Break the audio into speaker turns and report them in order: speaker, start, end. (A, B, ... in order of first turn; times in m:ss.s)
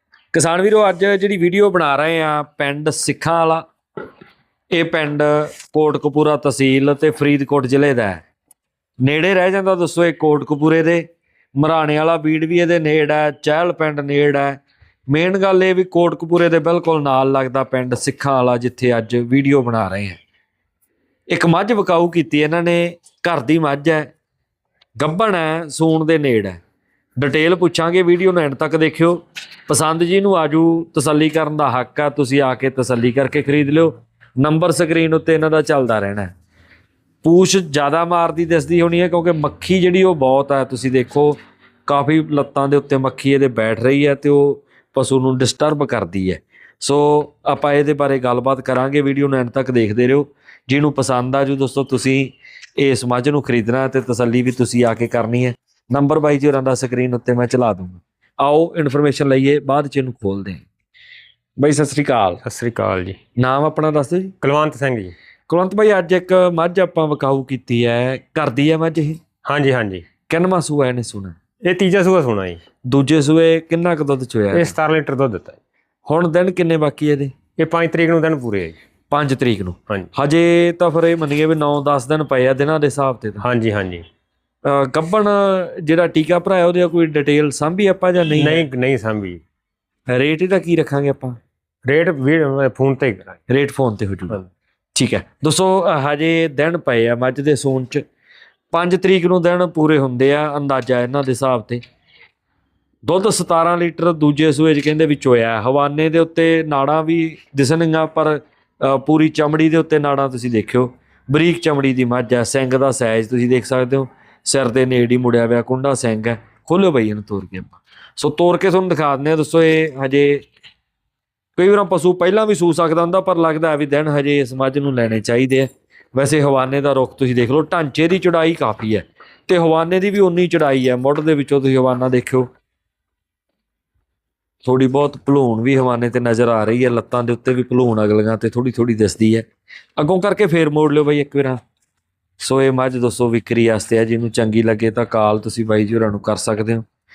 0:00.3-0:03.6 A
0:04.7-0:08.2 A
0:09.0-0:11.0 A
0:11.6-0:20.2 A
0:21.3-0:24.1 A
0:25.0-0:26.6 A
0:27.2-0:36.3 A
0:37.2-1:00.6 A
1:01.6-1:02.4 A
1:02.4-1:03.2 B
1:03.4-1:04.3 A
1:04.4-1:05.1 B
1:05.5-1:09.2 A
1:09.4-1:10.0 B
1:10.3-1:11.3 A
1:11.6-1:12.6 B
1:12.9-1:14.8 A
1:14.5-1:15.6 B
1:16.0-1:17.3 A
1:17.6-1:18.8 B
1:19.1-1:23.4 A
1:23.4-1:24.0 B
1:24.6-1:28.6 A
1:28.4-1:29.4 B
1:30.1-1:31.4 A
1:31.9-1:33.4 B
1:33.5-1:34.4 A
1:34.9-1:38.0 A
1:38.7-1:41.8 A
1:43.1-2:00.4 A
2:01.6-2:12.5 A
2:14.6-2:19.4 A
2:20.0-2:21.6 A
2:22.4-2:26.8 A